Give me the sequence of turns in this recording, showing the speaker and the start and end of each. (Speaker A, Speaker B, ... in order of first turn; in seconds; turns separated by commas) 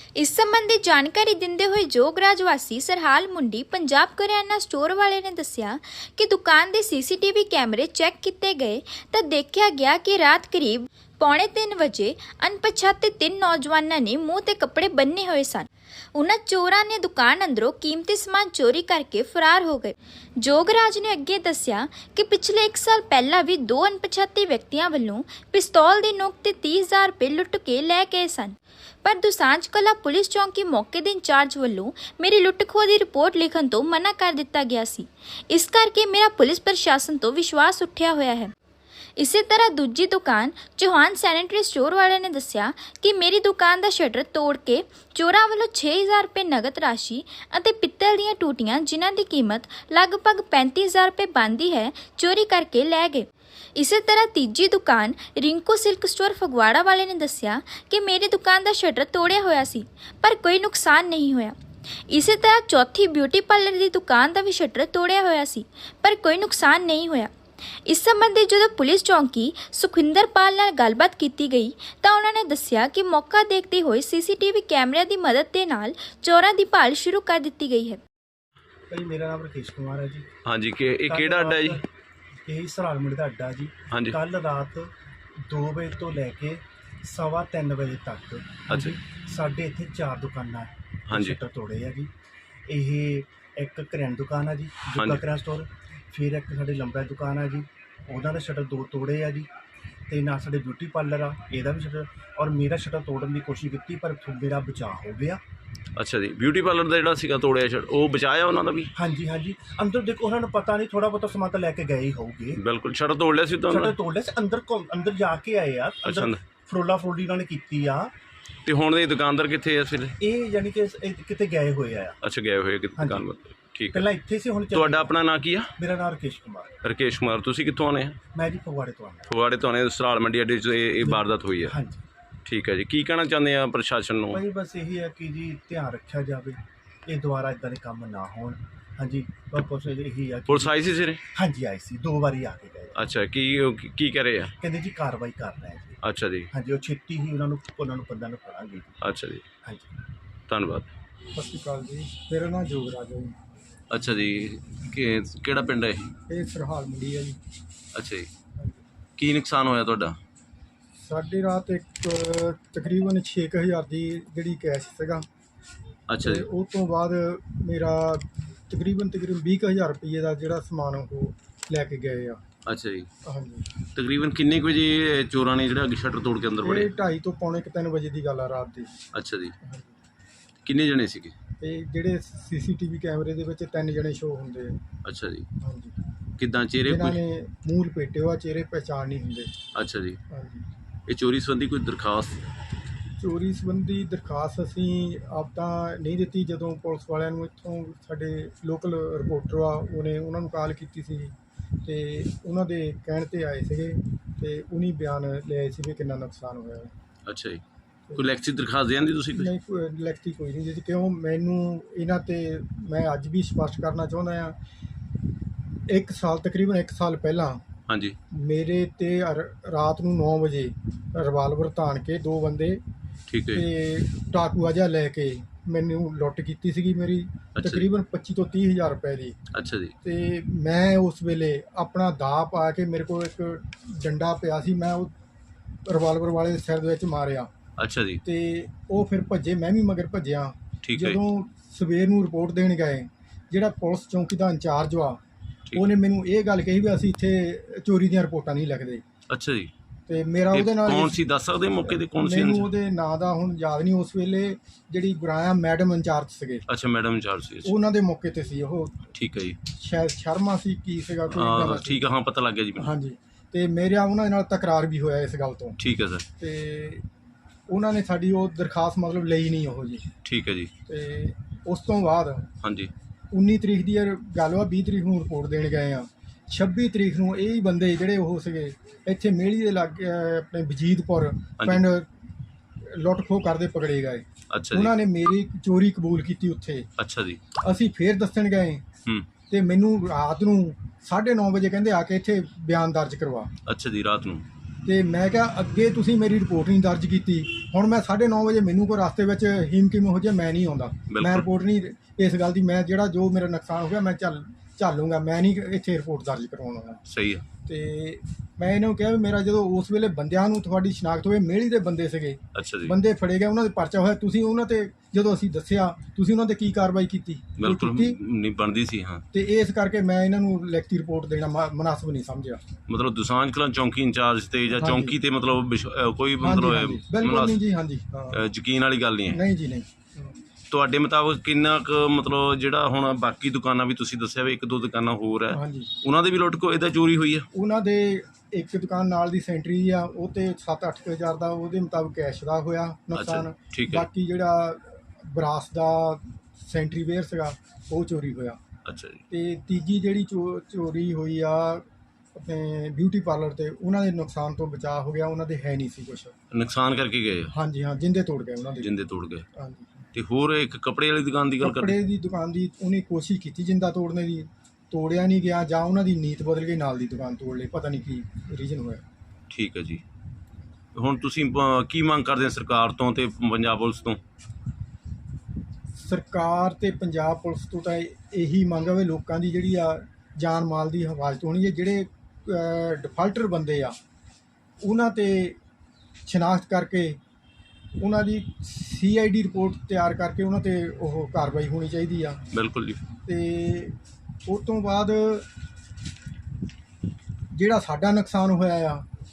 Speaker A: 0.2-38.5, Speaker A: 39.2-61.5, Speaker A: 62.1-67.3, Speaker A: 67.9-78.0, Speaker B: 78.9-80.3, Speaker C: 80.5-81.8, Speaker B: 81.1-81.8, Speaker B: 82.5-92.1, Speaker C: 83.9-84.2, Speaker C: 88.7-89.0, Speaker C: 91.1-91.4, Speaker B: 92.7-99.5, Speaker C: 95.0-95.2, Speaker B: 100.1-105.4, Speaker C: 106.0-108.9, Speaker B: 109.0-112.6, Speaker C: 112.6-114.0, Speaker B: 113.7-118.1, Speaker C: 116.0-116.4, Speaker C: 118.7-120.2, Speaker B: 120.2-122.2, Speaker C: 122.2-124.1, Speaker B: 123.0-123.2, Speaker B: 123.9-125.2, Speaker C: 124.7-125.8, Speaker B: 125.8-126.7, Speaker C: 126.8-128.2, Speaker B: 128.3-129.3, Speaker C: 129.3-131.8, Speaker B: 131.0-132.1, Speaker C: 132.5-134.4, Speaker B: 134.3-140.8, Speaker C: 140.5-141.2, Speaker B: 141.3-143.0, Speaker C: 142.9-144.6, Speaker B: 144.6-146.0, Speaker C: 146.0-146.5, Speaker B: 146.5-149.0, Speaker C: 149.0-149.4, Speaker B: 149.6-149.9, Speaker C: 150.5-150.9, Speaker D: 151.3-153.4, Speaker C: 153.9-156.1, Speaker D: 156.3-157.4, Speaker C: 157.9-158.3, Speaker C: 159.2-160.2, Speaker D: 161.0-165.3, Speaker C: 166.1-166.5, Speaker D: 166.2-172.4, Speaker C: 172.7-173.1, Speaker D: 173.2-173.7, Speaker C: 173.9-176.9, Speaker D: 176.6-178.9, Speaker C: 179.2-179.5, Speaker D: 179.6-180.0, Speaker C: 180.7-181.3, Speaker D: 181.6-184.8, Speaker C: 185.1-185.5, Speaker D: 185.6-186.0, Speaker C: 186.4-187.2, Speaker D: 186.8-189.6, Speaker C: 189.8-190.2, Speaker D: 190.3-190.7, Speaker C: 191.1-192.4, Speaker D: 193.2-206.9, Speaker C: 207.2-207.6, Speaker D: 208.1-208.3, Speaker C: 208.2-209.5, Speaker D: 209.3-214.6, Speaker D: 215.9-217.7, Speaker C: 217.9-218.2, Speaker D: 218.3-222.8, Speaker C: 223.3-223.7, Speaker D: 223.5-229.4, Speaker C: 227.6-227.9, Speaker C: 229.5-229.9, Speaker D: 230.0-235.1, Speaker D: 235.8-237.5, Speaker C: 237.8-238.2, Speaker D: 238.2-245.2, Speaker C: 240.8-241.2, Speaker D: 245.7-249.0, Speaker C: 249.3-249.7, Speaker D: 250.1-251.2, Speaker C: 250.5-252.7, Speaker D: 251.9-256.6, Speaker C: 256.7-257.7, Speaker D: 257.6-259.1, Speaker C: 259.1-259.6, Speaker D: 259.6-262.0, Speaker C: 261.3-262.9, Speaker D: 262.8-265.8, Speaker C: 265.8-266.2, Speaker D: 266.4-267.1, Speaker D: 267.7-270.1, Speaker C: 270.2-270.7, Speaker D: 270.9-272.5, Speaker C: 272.6-272.9, Speaker D: 273.3-282.1, Speaker D: 282.8-286.9, Speaker C: 284.5-284.9, Speaker C: 287.0-287.4, Speaker D: 287.6-288.9, Speaker D: 289.5-293.5, Speaker C: 293.6-294.4, Speaker D: 294.8-307.0, Speaker C: 301.1-301.5, Speaker C: 307.1-307.4, Speaker D: 307.6-318.2, Speaker C: 312.5-312.9, Speaker C: 317.6-319.2, Speaker D: 319.3-322.6, Speaker C: 322.9-327.6, Speaker D: 324.8-325.2, Speaker D: 326.4-328.4, Speaker C: 328.3-329.4, Speaker D: 329.3-330.4, Speaker C: 330.7-337.5, Speaker D: 335.5-335.9, Speaker D: 337.5-348.6, Speaker C: 343.1-344.1, Speaker C: 348.8-349.2, Speaker D: 349.3-356.3, Speaker C: 356.5-357.5, Speaker D: 357.5-358.9, Speaker C: 358.8-359.4, Speaker D: 359.5-360.0, Speaker C: 360.1-361.9, Speaker D: 361.6-369.0, Speaker C: 369.5-370.0, Speaker C: 370.9-374.2, Speaker D: 376.0-383.9, Speaker D: 384.8-385.6, Speaker D: 386.2-387.2, Speaker D: 388.0-392.4, Speaker C: 392.5-393.0, Speaker D: 393.2-395.5, Speaker D: 397.5-399.1